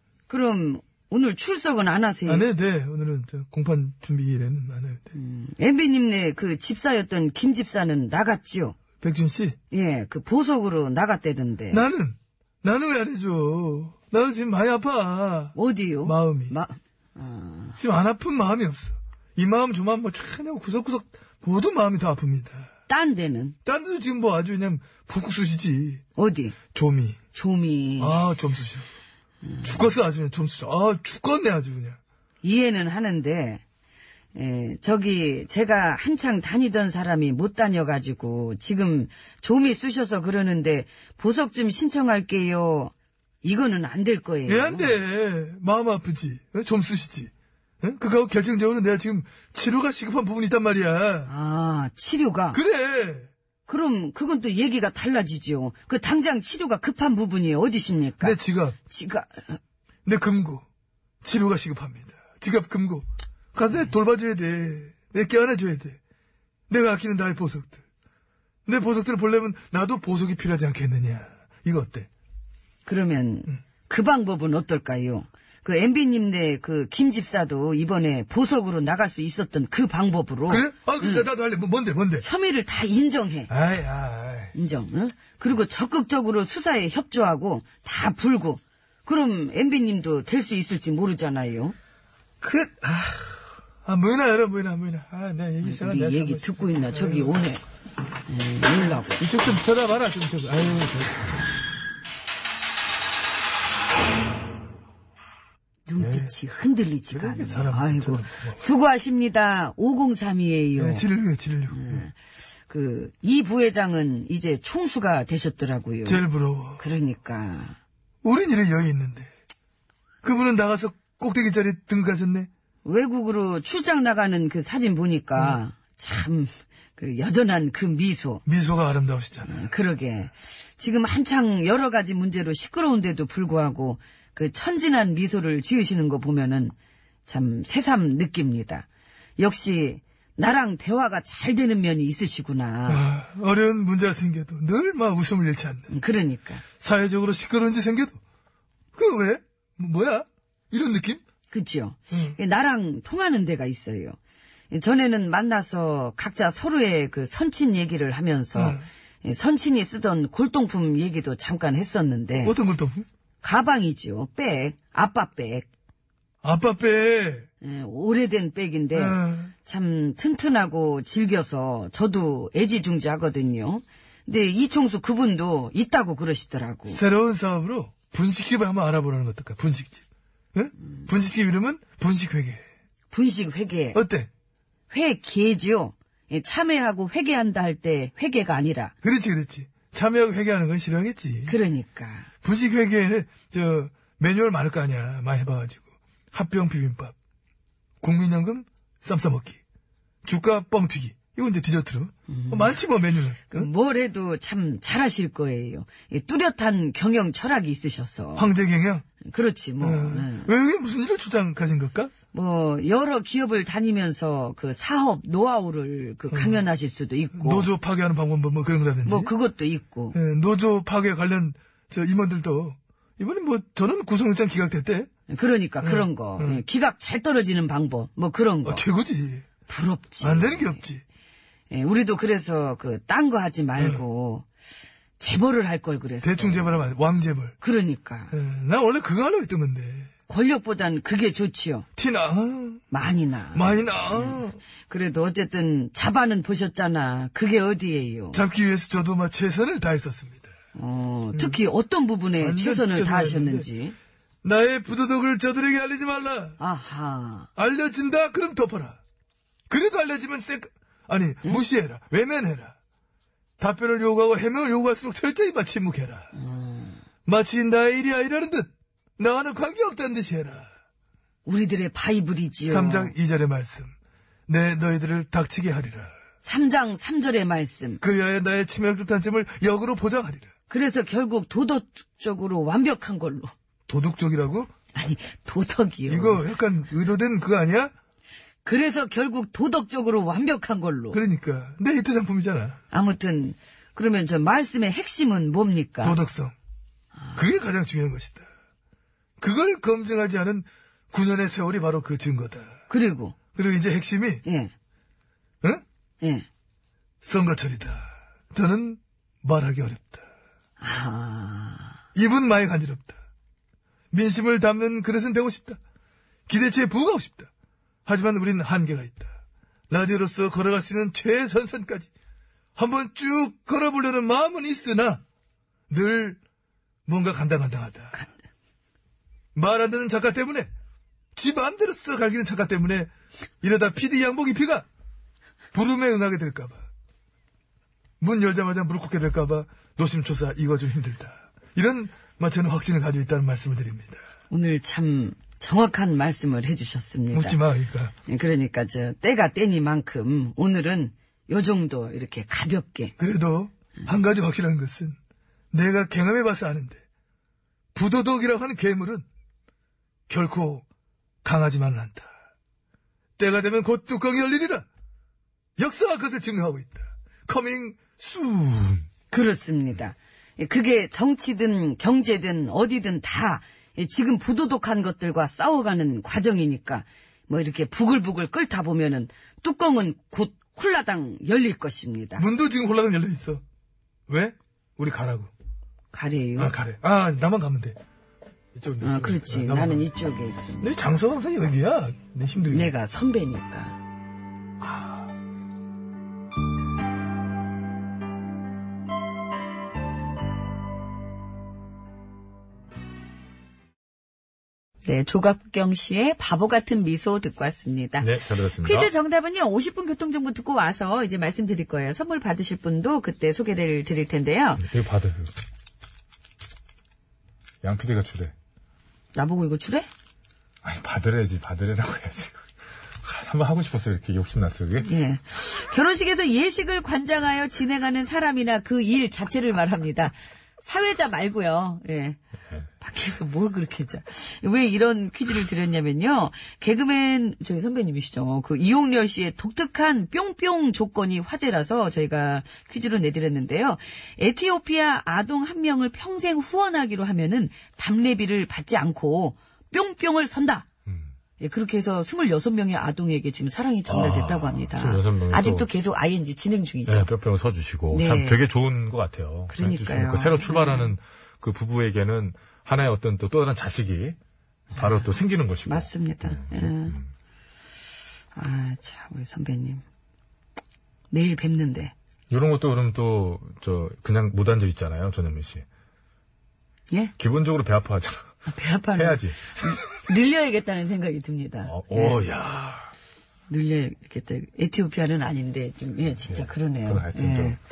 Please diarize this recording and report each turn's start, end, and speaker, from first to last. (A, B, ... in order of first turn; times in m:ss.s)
0:00.3-0:02.5 A
0:02.2-0:05.1 B
0:05.1-0:08.8 A
0:09.0-0:09.6 B
0:09.7-0:11.8 A
0:11.7-0:16.5 B
0:15.5-0:17.8 A
0:17.8-0:22.7 B
0:22.9-0:23.6 A
0:23.6-0:26.0 B
0:26.2-0:26.6 A
0:26.7-0:27.2 B
0:27.3-0:28.2 A
0:28.0-0:28.9 B
0:29.6-0:32.0 B
0:32.4-0:33.6 A
0:34.3-0:42.9 A
0:43.4-0:44.9 A
0:44.4-0:51.3 B
0:51.3-0:52.6 A
0:52.5-0:53.3 B
0:53.7-0:58.4 A
0:58.2-0:58.8 B
0:58.9-0:59.6 A
1:00.0-1:00.6 B
1:01.2-1:06.0 B
1:06.7-1:07.8 B
1:08.6-1:12.1 B
1:12.8-1:21.3 A
1:20.5-1:22.2 B
1:22.2-1:23.5 A
1:23.5-1:24.5 B
1:24.5-1:31.7 A
1:32.4-1:33.3 B
1:33.8-1:37.4 B
1:35.6-1:37.6 A
1:38.3-1:39.2 A
1:39.2-1:41.3 B
1:45.9-1:51.0 A
1:46.0-1:46.3 B
1:47.1-1:48.6 B
1:50.8-1:52.0 B
1:51.7-1:52.1 A
1:52.7-1:56.2 A
1:56.0-1:56.9 B
1:56.8-1:57.8 A
1:58.2-1:59.3 B
2:00.2-2:02.5 B
2:02.8-2:08.4 A
2:08.4-2:09.7 B
2:09.4-2:16.7 A
2:17.3-2:18.8 A
2:19.4-2:23.1 A
2:22.9-2:25.9 B
2:25.9-2:26.6 A
2:26.8-2:28.2 B
2:28.9-2:31.2 B
2:31.5-2:34.2 A
2:32.1-2:32.4 B
2:34.7-2:42.5 A
2:38.5-2:38.8 B
2:42.4-2:43.0 B
2:43.4-2:45.6 A
2:46.4-2:47.5 B
2:47.6-2:57.0 A
2:48.9-2:49.5 B
2:56.9-3:00.0 B
3:00.5-3:02.6 B
3:03.1-3:04.0 A
3:03.9-3:04.3 B
3:04.9-3:08.9 A
3:09.0-3:11.6 B
3:11.5-3:12.3 A
3:12.4-3:17.1 B
3:18.0-3:19.6 B
3:20.2-3:23.7 B
3:22.3-3:22.8 A
3:23.5-3:28.5 A
3:28.4-3:29.0 B
3:29.2-3:30.5 A
3:29.8-3:32.1 B
3:32.3-3:37.7 A
3:36.3-3:36.6 B
3:37.4-3:39.3 B
3:39.0-3:40.2 A
3:40.1-3:45.1 B
3:45.3-3:48.8 A
3:45.8-3:46.6 B
3:48.6-3:49.5 B
3:49.7-3:50.8 A
3:50.2-3:51.0 B
3:51.7-3:54.4 A
3:53.8-3:54.0 B
3:55.2-3:56.9 A
3:56.2-3:57.5 B
3:57.6-3:58.3 A
3:58.3-4:00.1 B
4:00.3-4:01.8 A
4:02.0-4:02.8 B
4:02.9-4:08.4 A
4:03.5-4:04.6 B
4:08.3-4:10.5 B
4:10.7-4:14.0 A
4:11.3-4:11.6 B
4:12.4-4:13.7 B
4:14.4-4:16.6 B
4:16.6-4:17.5 A
4:17.6-4:19.0 B
4:19.7-4:22.7 B
4:23.6-4:26.3 B
4:26.3-4:27.0 A
4:27.2-4:30.7 B
4:31.4-4:33.1 A
4:32.6-4:33.9 B
4:34.5-4:36.1 B
4:36.4-4:38.0 A
4:38.0-4:40.5 B
4:40.7-4:43.5 A
4:43.9-4:44.7 B
4:44.9-4:46.4 A
4:46.1-4:47.9 B
4:48.6-4:51.2 A
4:51.1-4:52.8 B
4:52.9-4:56.2 A
4:56.0-4:56.5 B
4:57.2-4:57.4 A
4:57.4-4:58.5 B
4:59.4-5:02.8 B
5:02.9-5:03.4 A
5:03.5-5:04.4 B
5:04.4-5:04.7 A
5:06.2-5:06.4 A
5:07.2-5:10.2 B
5:10.8-5:12.0 A
5:12.1-5:13.2 B
5:14.1-5:15.8 B
5:16.5-5:17.5 B
5:18.0-5:19.3 B
5:19.9-5:22.1 B
5:22.8-5:25.2 B
5:25.9-5:26.4 B
5:27.0-5:28.2 B
5:29.5-5:30.7 B
5:31.3-5:34.8 B
5:35.7-5:36.8 B
5:38.2-5:44.2 B
5:44.5-5:47.6 A
5:47.3-5:48.1 B
5:48.3-5:53.1 A
5:53.2-5:55.2 B
5:55.7-5:57.0 B
5:57.9-5:59.2 B
6:00.3-6:00.8 B
6:01.4-6:02.3 B
6:03.4-6:04.8 B
6:05.8-6:09.0 B
6:09.3-6:22.5 A
6:22.4-6:23.6 B
6:24.3-6:25.5 B
6:26.1-6:26.7 A
6:26.6-6:28.0 B
6:28.7-6:30.1 B
6:29.0-6:30.9 A
6:30.8-6:32.9 B
6:32.7-6:34.0 A
6:34.8-6:35.1 C
6:45.0-6:48.3 A
6:48.2-6:49.1 C
6:48.8-6:54.8 A
6:54.8-6:55.5 C
6:57.8-6:58.5 C
6:59.3-7:00.1 A
7:00.8-7:02.6 C
7:03.2-7:05.1 C
7:05.0-7:12.4 A
7:13.0-7:30.8 A
7:31.6-7:37.3 A
7:34.1-7:35.9 C
7:37.1-7:44.4 C
7:38.1-7:38.6 A
7:39.7-7:41.1 A
7:44.9-7:47.2 C
7:45.8-7:47.2 A
7:48.5-7:50.0 A
7:51.3-7:52.1 A
7:52.5-7:55.8 C
7:57.4-7:58.4 C
7:58.6-8:02.4 A
7:59.1-7:59.6 C
8:01.8-8:03.1 C
8:03.7-8:07.8 A
8:06.5-8:07.8 C